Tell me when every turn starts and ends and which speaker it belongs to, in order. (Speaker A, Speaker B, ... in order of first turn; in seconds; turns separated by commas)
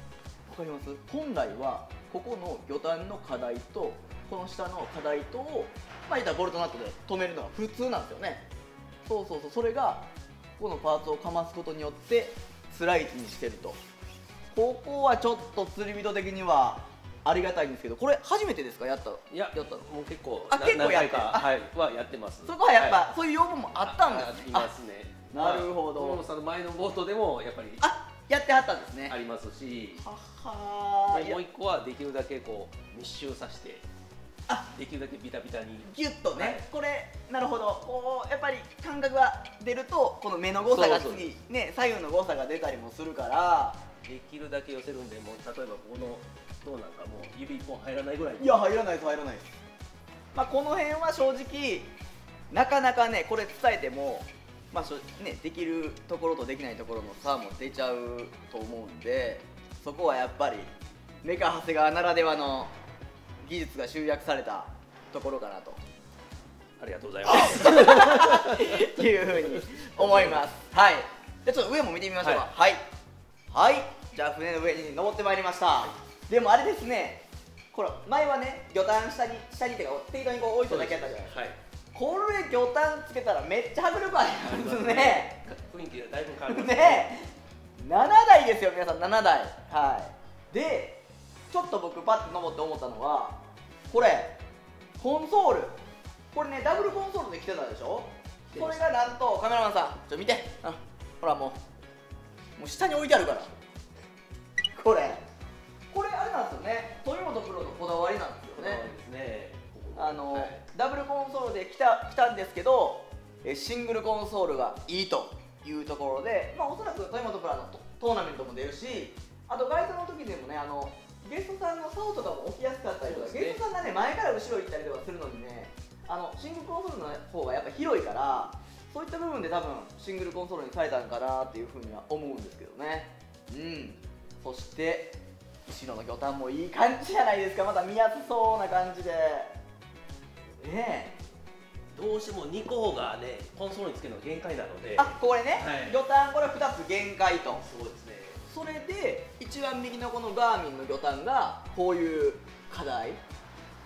Speaker A: 0.5-8.4, Speaker A: 9.1-10.1, Speaker A: 10.6-13.8, Speaker A: 14.5-19.9, Speaker B: 19.3-23.0, Speaker A: 20.5-21.5, Speaker A: 22.4-24.7, Speaker B: 23.7-27.9, Speaker A: 25.3-26.2, Speaker A: 27.8-29.1, Speaker B: 29.1-30.0, Speaker A: 30.0-31.4, Speaker B: 31.1-33.9, Speaker B: 34.7-36.6, Speaker A: 35.8-43.8, Speaker B: 40.6-41.3, Speaker B: 44.0-48.6, Speaker A: 48.4-49.5, Speaker A: 50.3-51.9, Speaker A: 52.5-60.7, Speaker A: 61.2-62.7, Speaker A: 63.4-65.8, Speaker B: 66.8-70.4, Speaker A: 67.8-72.8, Speaker B: 72.2-72.5, Speaker A: 73.5-81.3, Speaker B: 80.6-81.6, Speaker A: 81.9-85.4, Speaker B: 84.3-87.1, Speaker A: 86.5-87.3, Speaker A: 87.8-94.4, Speaker A: 95.0-95.8, Speaker A: 96.3-101.6, Speaker B: 98.5-98.8, Speaker A: 102.5-103.5, Speaker A: 104.7-105.2, Speaker A: 105.9-108.9, Speaker B: 108.5-110.6, Speaker A: 110.0-139.5, Speaker B: 123.0-123.6, Speaker A: 140.6-141.2, Speaker B: 141.9-146.0, Speaker A: 144.9-147.6, Speaker B: 147.5-148.4, Speaker A: 148.4-153.2